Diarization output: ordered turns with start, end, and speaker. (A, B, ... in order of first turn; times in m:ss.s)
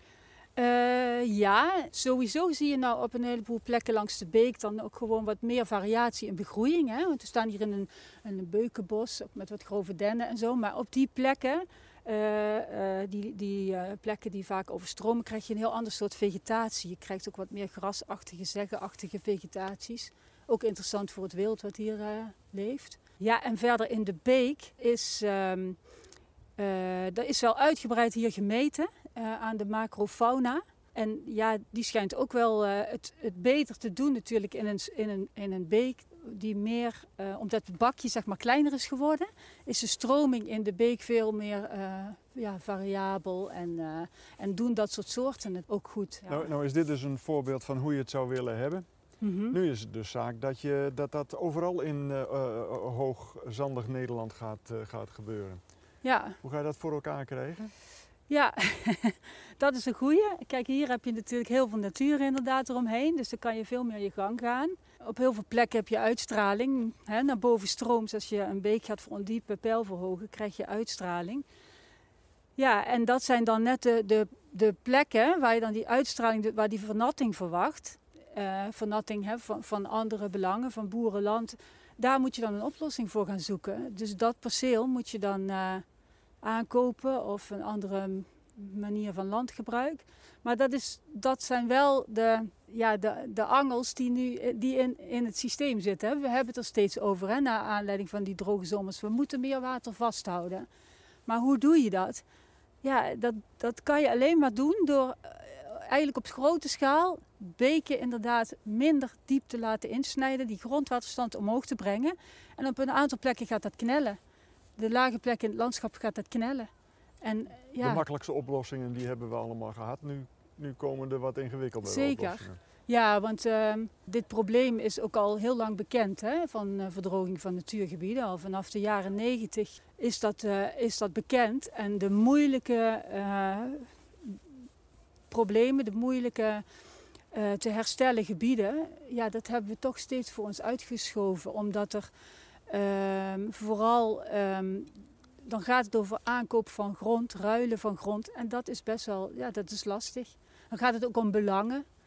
0:00.6-0:25.8 A
0:26.6-0:46.5 A
0:46.3-0:48.9 B
0:49.2-0:49.6 A
0:49.5-0:55.6 B
0:56.0-0:56.4 A
0:56.4-0:57.7 B
0:58.3-1:11.4 A
1:12.6-1:25.8 A
1:26.4-1:40.7 A
1:41.3-1:42.2 A
1:42.8-1:54.2 A
1:54.8-1:56.7 A
1:57.2-1:58.0 A
1:57.8-2:02.6 B
2:01.8-2:14.4 A
2:15.3-2:16.6 A
2:17.3-2:22.1 A
2:22.7-2:24.9 A
2:25.4-2:31.9 A